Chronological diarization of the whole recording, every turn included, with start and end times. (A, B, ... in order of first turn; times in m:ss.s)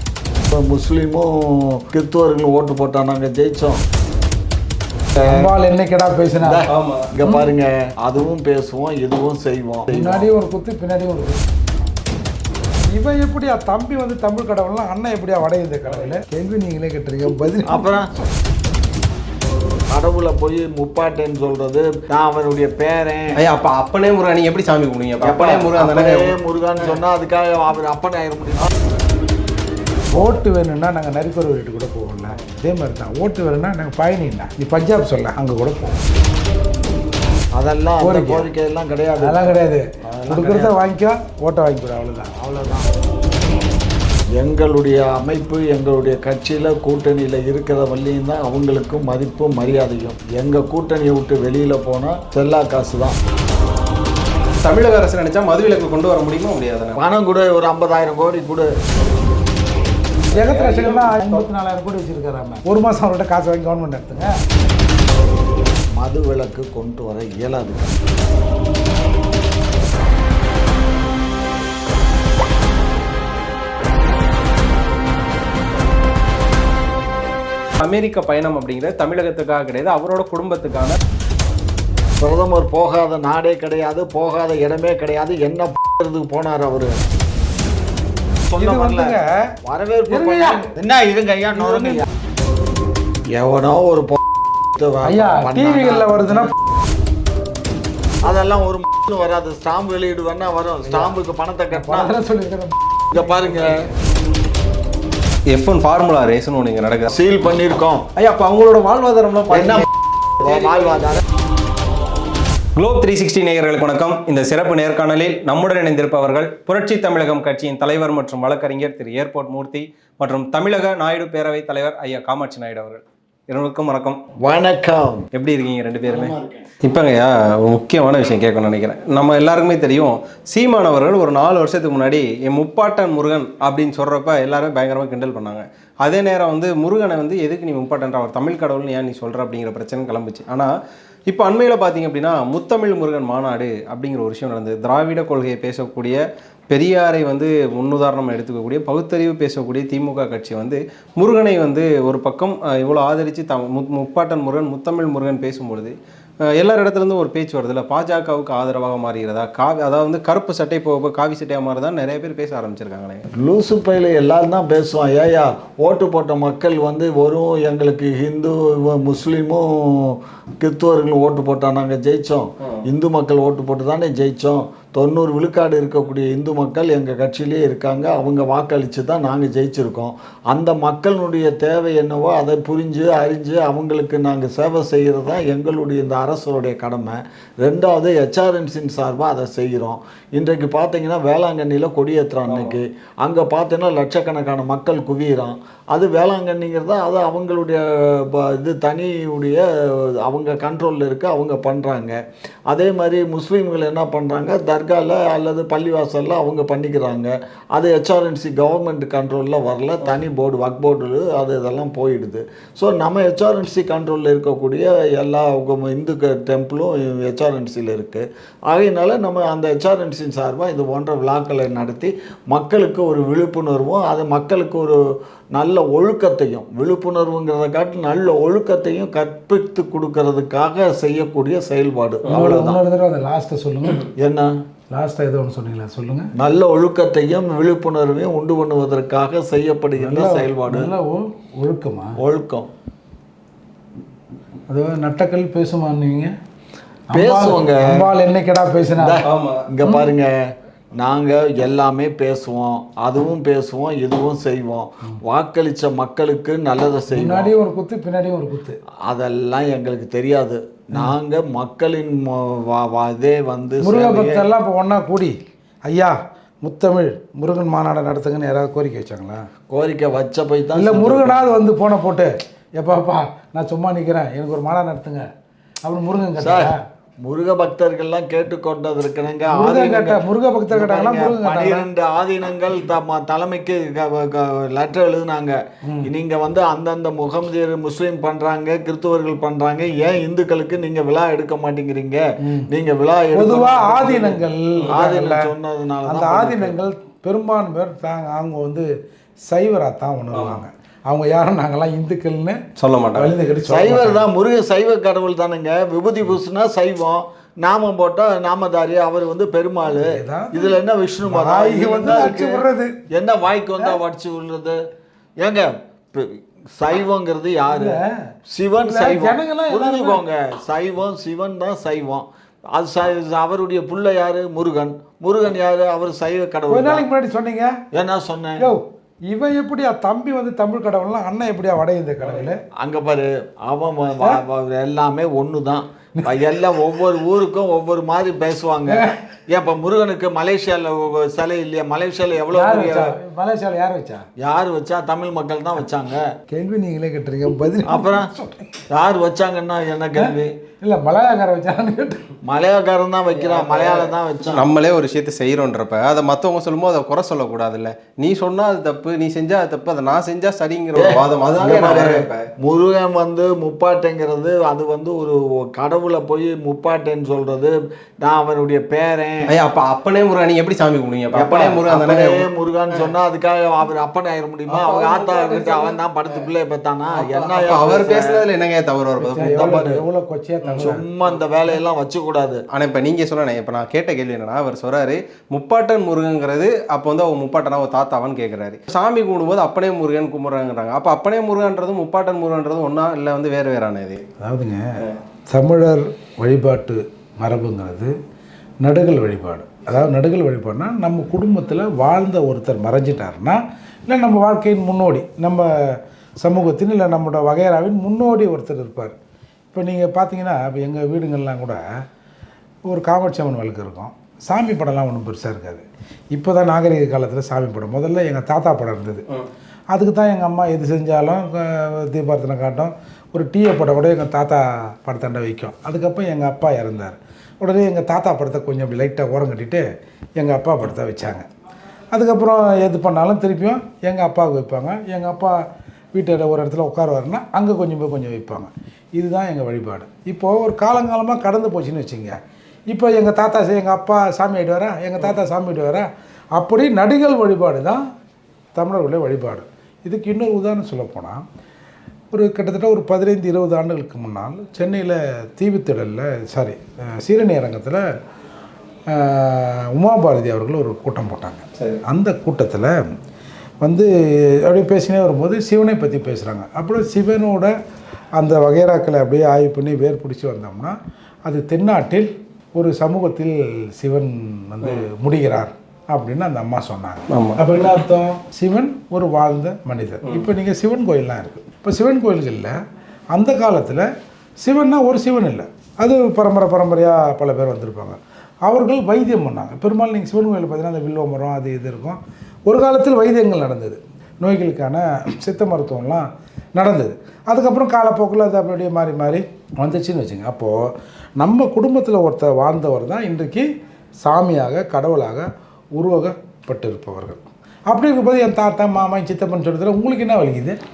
0:00.5-0:03.8 A
0:05.1-0:05.5 A
0:05.2-0:06.6 B
0:06.4-0:10.3 A
0:06.7-0:07.1 C
0:07.2-0:07.5 B
0:09.9-0:11.4 B
0:12.9-0:17.9 B
0:17.7-0:18.1 A
0:19.9-0:23.4 A
0:23.4-0:26.9 C
0:25.2-0:28.7 A
0:30.1-0:36.0 B
0:37.6-0:39.5 A
0:38.0-0:38.5 B
0:39.2-0:42.3 B
0:40.0-0:40.8 A
0:42.3-0:42.9 A
0:44.4-0:53.2 A
0:54.6-0:57.0 C
0:57.0-0:58.7 A
1:00.3-1:01.4 C
1:00.3-1:04.3 B
1:06.0-1:08.0 A
1:17.8-1:21.0 C
1:22.2-1:27.0 A
1:28.5-1:32.0 A
1:28.6-1:29.3 B
1:30.1-1:30.7 B
1:31.6-1:32.0 B
1:33.3-1:34.2 A
1:34.7-1:36.5 A
1:35.0-1:36.5 B
1:38.2-1:42.1 A
1:41.7-1:43.8 B
1:43.1-1:43.7 A
1:45.5-1:47.1 C
1:47.1-1:48.0 A
1:48.2-1:49.8 C
1:49.5-1:49.8 A
1:50.4-1:51.2 A
1:50.4-1:50.8 C
1:52.8-2:04.2 C
2:04.4-2:05.3 A
2:05.4-2:20.7 C
2:06.1-2:06.7 A
2:21.3-2:26.2 C
2:26.7-2:35.9 C
2:36.5-2:43.2 C
2:43.4-3:45.0 A
3:12.5-3:12.8 C
3:45.5-3:52.8 A
3:52.3-3:54.1 B
3:54.2-3:54.5 A
3:54.9-3:56.3 B
3:56.3-4:00.9 A
4:00.0-4:02.2 B
4:02.2-4:02.7 A
4:04.7-4:06.3 B
4:07.1-4:09.2 B
4:07.1-4:07.9 A
4:09.0-4:10.4 A
4:09.2-4:09.6 C
4:11.0-4:17.5 A
4:17.1-4:18.8 B
4:19.0-4:24.4 A
4:23.8-4:25.3 B
4:25.9-4:29.4 B
4:29.7-4:31.5 A
4:30.8-4:35.2 B
4:35.8-4:36.8 B
4:36.4-4:36.7 A
4:37.2-4:56.8 A
4:39.5-4:41.9 B
4:52.4-4:52.7 B
4:53.3-4:55.5 B
4:56.0-4:58.8 B
4:59.5-5:02.6 B
5:00.3-5:00.6 C
5:02.8-5:03.3 C
5:03.1-5:04.2 B
5:03.6-5:14.8 A
5:10.0-5:10.8 B
5:11.3-5:12.9 B
5:15.4-5:18.0 A
5:17.7-5:18.1 B
5:18.5-5:27.0 A
5:18.8-5:20.2 B
5:26.7-5:27.7 B
5:27.9-5:28.7 A
5:28.6-5:32.6 B
5:32.8-5:43.1 A
5:36.2-5:36.4 B
5:38.9-5:39.1 B
5:42.5-5:44.2 B
5:44.4-5:46.3 A
5:46.5-5:48.7 B
5:47.8-5:48.3 A
5:48.9-5:50.5 A
5:50.2-5:52.2 B
5:52.4-5:54.6 A
5:53.3-6:02.4 C
6:00.9-6:09.4 A
6:09.5-6:13.1 C
6:11.3-6:18.4 A
6:14.7-6:16.4 C
6:17.1-6:19.5 C
6:19.2-6:21.0 B
6:19.4-6:20.0 A
6:20.8-6:22.6 A
6:22.7-6:34.2 C
6:34.4-6:34.8 B
6:35.5-6:38.1 B
6:38.8-6:49.1 B
6:49.7-6:51.8 B
6:52.9-6:59.2 B
6:59.9-7:09.8 B
7:10.4-7:11.4 B
7:12.1-7:15.5 B
7:16.1-7:22.4 B
7:22.9-7:28.0 B
7:28.8-7:31.4 B
7:32.3-7:38.0 B
7:39.1-7:42.9 B
7:43.8-7:44.1 B
7:44.6-7:47.7 B
7:48.4-7:50.9 B
7:51.4-8:02.7 B
7:57.3-7:57.6 C
8:03.3-8:04.1 B
8:04.6-8:23.6 B
8:24.2-8:30.8 B